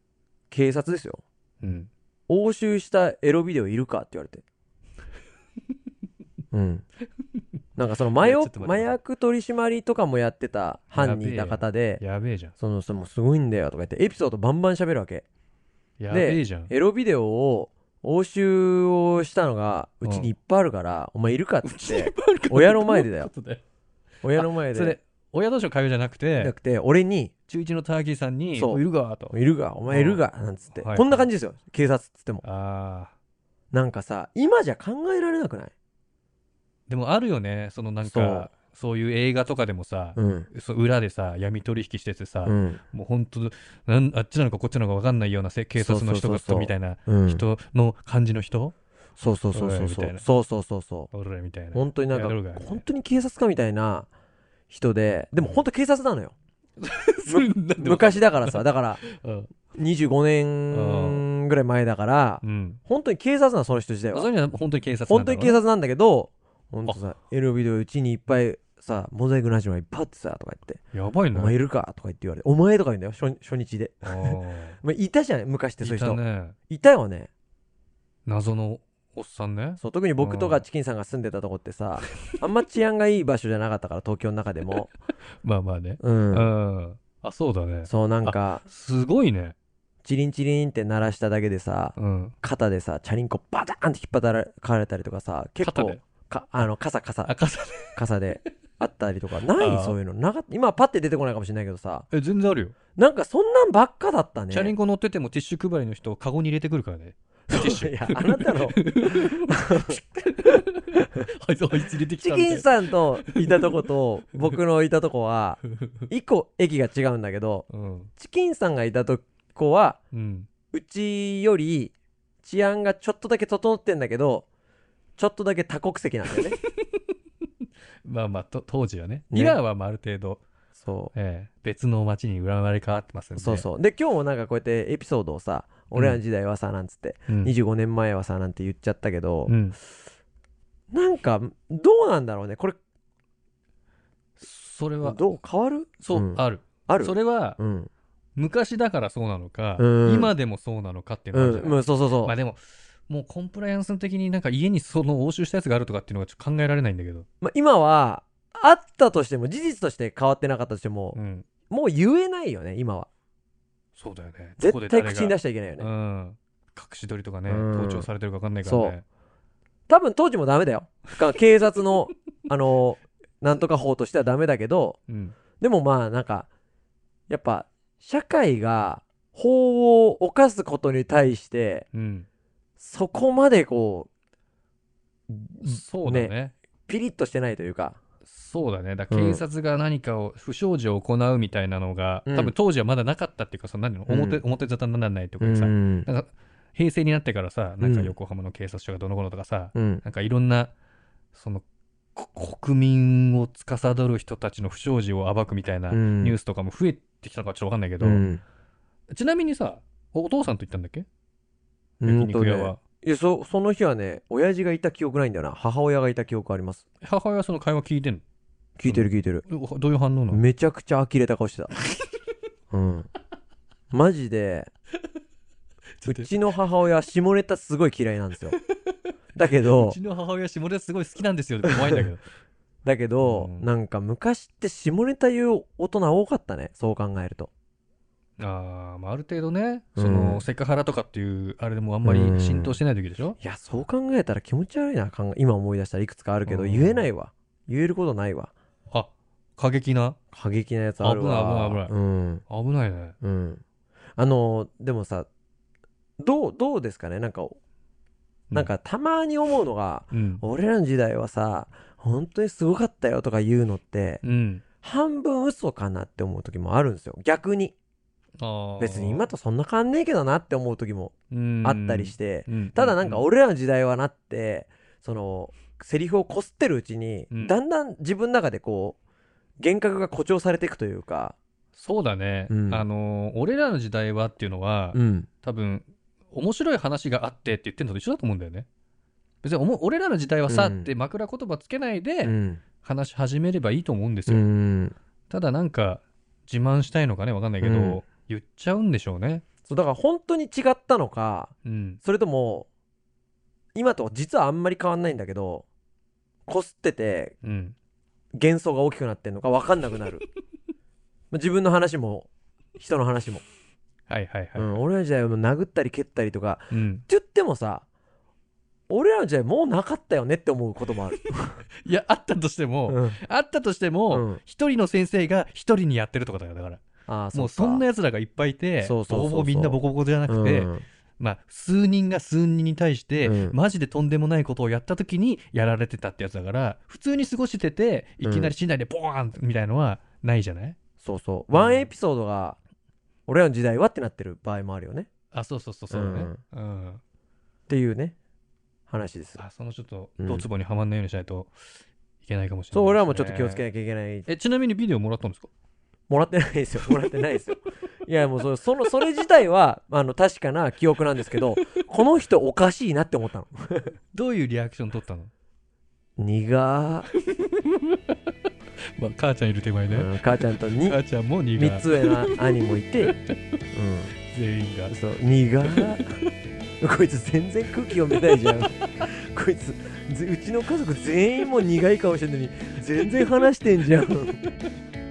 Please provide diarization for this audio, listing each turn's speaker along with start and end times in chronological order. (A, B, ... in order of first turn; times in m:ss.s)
0:00.5-0:01.2 A
0:01.6-0:01.9 B
0:02.3-0:04.4 A
0:06.5-0:06.8 A
0:07.8-0:12.0 A
0:08.2-0:09.0 B
0:10.9-0:12.6 B
0:12.6-0:15.2 A
0:16.0-0:16.7 B
0:16.1-0:23.3 A
0:20.0-0:20.3 B
0:21.6-0:23.6 B
0:24.2-0:25.0 A
0:24.3-0:26.5 B
0:26.4-0:27.3 A
0:27.5-0:29.4 B
0:28.5-0:32.4 A
0:29.9-0:31.3 B
0:32.4-0:33.1 B
0:33.7-0:35.7 A
0:36.9-0:48.8 B
0:38.0-0:38.5 A
0:40.2-0:40.5 A
0:42.4-0:42.8 A
0:45.8-0:47.4 A
0:49.2-0:51.1 A
0:49.5-0:50.2 B
0:51.1-0:52.8 B
0:51.7-0:54.1 A
0:54.7-0:56.3 A
0:56.8-0:59.5 B
0:57.3-0:59.0 A
0:59.7-1:04.3 A
1:00.7-1:01.2 B
1:02.4-1:02.8 B
1:04.1-1:05.6 B
1:05.1-1:10.8 A
1:10.9-1:11.6 B
1:11.3-1:17.3 A
1:14.0-1:14.8 B
1:15.8-1:16.6 B
1:18.3-1:20.6 B
1:19.8-1:24.9 A
1:25.4-1:29.6 B
1:26.0-1:26.5 A
1:27.9-1:28.6 A
1:30.0-1:37.3 A
1:32.0-1:32.4 B
1:35.6-1:36.0 B
1:37.3-1:38.0 B
1:38.0-1:42.1 A
1:39.6-1:40.0 B
1:42.1-1:42.8 B
1:43.0-1:44.7 A
1:44.5-1:53.7 B
1:47.5-1:50.0 A
1:52.2-1:57.7 A
1:57.7-1:58.1 B
1:58.2-2:00.0 A
2:00.1-2:00.5 B
2:00.7-2:04.5 A
2:05.2-2:06.6 A
2:08.0-2:10.4 B
2:09.3-2:09.6 A
2:10.8-2:11.1 A
2:11.1-2:13.7 B
2:13.4-2:19.6 A
2:19.5-2:19.8 B
2:20.9-2:22.8 A
2:24.4-2:25.2 B
2:25.0-2:27.9 A
2:26.0-2:27.6 B
2:28.4-2:37.3 B
2:29.8-2:30.3 A
2:31.3-2:32.3 A
2:37.4-2:41.2 A
2:41.1-2:41.5 B
2:41.7-2:43.1 A
2:44.0-2:49.0 B
2:44.6-2:45.9 A
2:47.5-2:48.1 A
2:48.6-2:49.0 A
2:49.9-2:55.0 A
2:55.1-2:55.4 B
2:55.6-2:56.5 A
2:57.3-3:01.9 A
3:01.9-3:02.3 B
3:02.8-3:04.1 A
3:05.3-3:06.3 A
3:05.6-3:06.5 B
3:06.9-3:08.0 A
3:08.3-3:20.7 B
3:09.1-3:09.4 A
3:12.3-3:12.5 A
3:14.1-3:14.4 A
3:15.4-3:16.1 A
3:17.8-3:18.2 A
3:19.8-3:20.0 A
3:21.3-3:21.6 B
3:22.2-3:28.2 B
3:25.9-3:26.4 A
3:28.0-3:28.4 A
3:29.1-3:31.1 B
3:32.0-3:36.8 A
3:32.0-3:32.8 B
3:37.0-3:38.2 B
3:38.8-3:39.4 A
3:38.8-3:40.4 B
3:40.3-3:41.7 A
3:42.7-3:43.1 A
3:43.9-3:44.7 A
3:46.0-3:46.3 B
3:46.1-3:48.6 A
3:49.4-3:50.0 A
3:49.6-3:52.3 B
3:52.8-3:57.5 A
3:53.2-3:53.7 B
3:58.4-4:03.4 B
4:00.0-4:00.4 A
4:02.0-4:02.8 A
4:03.4-4:08.5 A
4:06.4-4:07.1 B
4:08.9-4:10.2 B
4:10.3-4:12.4 A
4:11.0-4:11.9 B
4:12.5-4:13.2 B
4:13.2-4:13.6 A
4:14.2-4:15.3 A
4:16.2-4:17.6 A
4:18.5-4:24.2 A
4:20.1-4:20.4 B
4:24.2-4:24.6 B
4:24.8-4:27.8 A
4:28.4-4:29.3 B
4:28.8-4:39.0 A
4:31.3-4:33.2 B
4:37.3-4:37.6 B
4:39.6-4:41.4 A
4:41.7-4:48.7 B
4:42.5-4:42.8 A
4:44.9-4:45.3 A
4:49.4-4:54.4 B
4:50.5-4:50.9 A
4:52.2-4:52.6 A
4:54.3-4:55.0 A
4:55.3-4:59.5 B
4:57.6-4:58.0 A
4:59.7-5:02.7 A
5:01.6-5:02.0 B
5:03.8-5:05.7 A
5:06.5-5:07.4 A
5:07.4-5:07.8 B
5:08.4-5:10.3 A
5:11.3-5:13.4 A
5:14.1-5:14.8 B
5:14.6-5:17.8 A
5:16.7-5:17.0 B
5:18.9-5:21.6 A
5:21.8-5:26.8 B
5:22.9-5:23.2 A
5:24.1-5:24.4 A
5:27.1-5:27.8 A
5:27.3-5:40.8 B
5:28.8-5:30.8 A
5:33.2-5:33.6 A
5:38.2-5:38.5 A
5:41.0-5:42.6 A
5:41.5-5:41.9 B
5:43.3-5:45.1 A
5:45.3-5:47.0 B
5:45.9-5:46.4 A
5:47.7-5:48.2 A
5:48.9-5:49.4 A
5:49.4-5:51.5 B
5:50.2-5:50.5 A
5:52.2-5:53.7 B
5:52.7-5:54.3 A
5:54.3-5:55.5 B
5:56.1-6:04.0 A
6:01.6-6:01.8 B
6:04.1-6:05.3 B
6:06.2-6:07.1 A
6:07.3-6:08.1 B
6:09.0-6:12.4 B
6:09.9-6:11.0 A
6:11.6-6:13.2 A
6:13.7-6:14.1 A
6:14.3-6:15.0 B
6:14.9-6:16.0 A
6:15.6-6:16.3 B
6:16.8-6:24.4 A
6:18.2-6:18.6 B
6:23.0-6:23.4 B